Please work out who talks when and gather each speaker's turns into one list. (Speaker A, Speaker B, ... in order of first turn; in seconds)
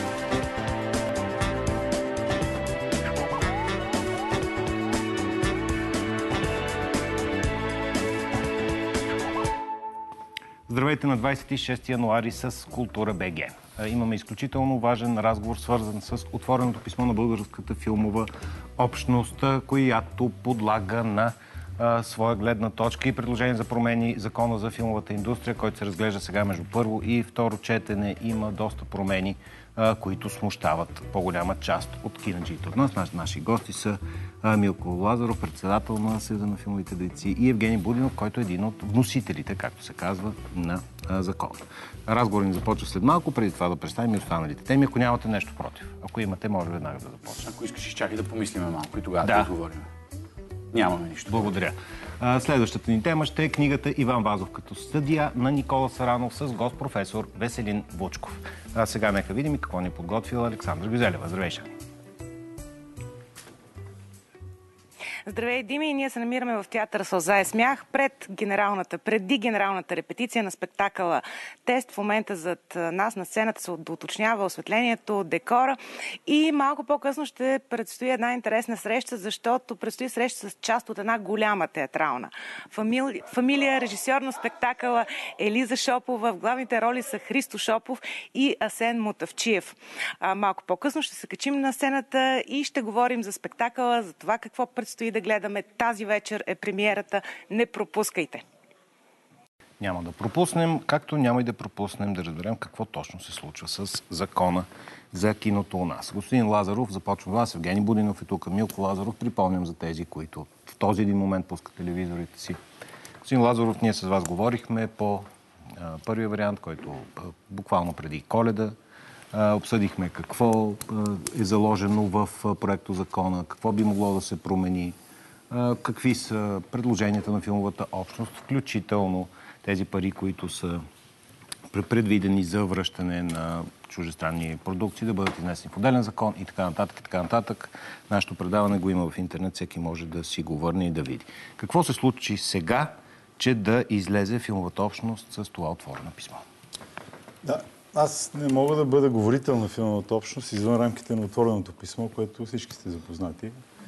Speaker A: 10.7-47.5, 49.2-49.5, 51.3-61.8, 99.8-112.6, 113.2-118.8, 119.3-125.0, 125.5-130.8, 131.7-146.4
Speaker B: 47.4-49.9, 50.7-51.5
Speaker C: 65.2-98.4
Speaker D: 147.4-153.5